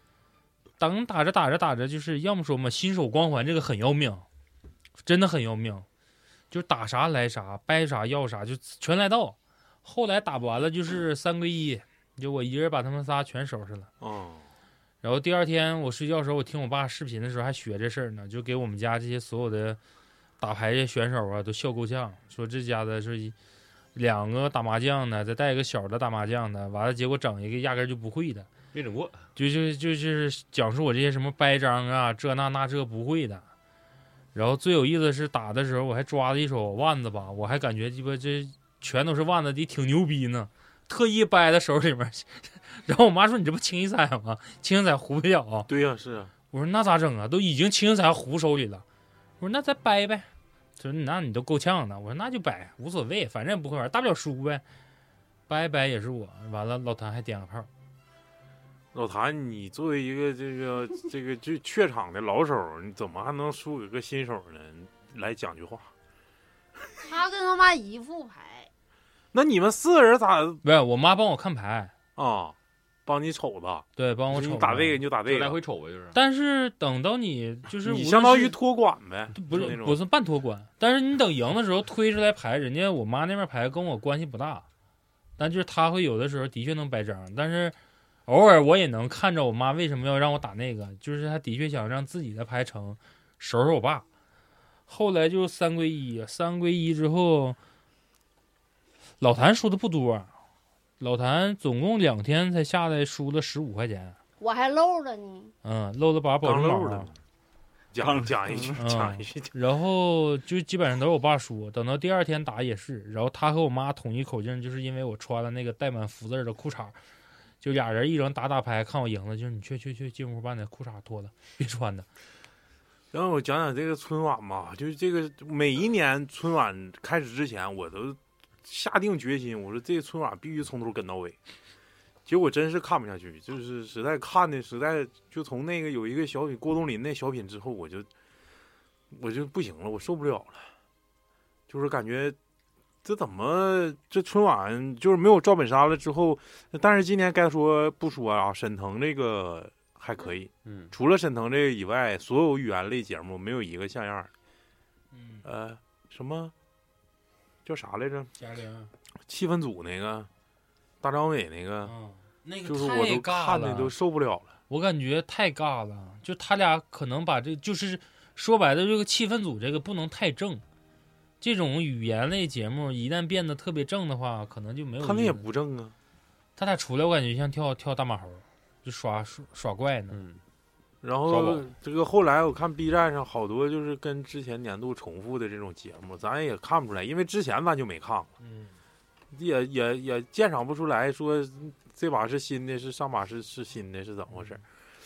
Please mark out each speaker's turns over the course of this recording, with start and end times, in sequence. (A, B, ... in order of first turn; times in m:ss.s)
0:00.8-0:04.2 A
0:05.0-0:05.8 A
0:06.5-0:13.9 A
0:14.0-0:14.4 B
0:15.0-0:19.8 A
0:20.4-0:23.3 A
0:23.9-0:28.5 A
0:28.7-0:29.2 C
0:29.4-0:33.4 A
0:34.3-0:45.7 A
0:45.7-0:46.3 B
0:46.5-0:48.8 A
0:49.4-0:54.6 A
0:55.5-0:57.7 A
0:58.9-1:05.9 B
1:07.0-1:08.7 D
1:09.3-1:10.6 B
1:10.6-1:11.9 A
1:12.2-1:12.5 B
1:13.0-1:15.6 B
1:14.0-1:15.0 A
1:15.2-1:16.2 C
1:16.1-1:18.6 A
1:17.8-1:20.0 B
1:19.3-1:24.6 A
1:25.4-1:27.8 A
1:28.3-1:34.0 A
1:34.9-1:37.6 A
1:39.2-1:40.3 A
1:41.0-1:44.2 A
1:44.4-1:45.5 D
1:45.6-1:47.1 A
1:46.4-1:47.1 B
1:47.9-1:49.5 B
1:48.8-1:57.0 A
1:57.6-2:02.1 A
2:03.1-2:11.4 B
2:12.2-2:18.1 B
2:19.1-2:20.7 B
2:21.7-2:22.4 B
2:23.0-2:34.3 B
2:30.6-2:30.9 C
2:35.1-2:35.4 A
2:35.4-2:36.5 B
2:37.6-2:38.3 B
2:38.4-2:38.9 A
2:39.3-2:40.3 B
2:41.0-2:41.9 B
2:41.8-2:43.9 A
2:42.6-2:44.5 B
2:44.7-2:50.6 A
2:51.4-2:55.4 A
2:55.0-2:55.9 B
2:56.6-3:00.2 A
3:00.1-3:00.4 C
3:01.0-3:08.3 B
3:01.3-3:01.6 C
3:08.4-3:08.7 A
3:09.3-3:14.6 B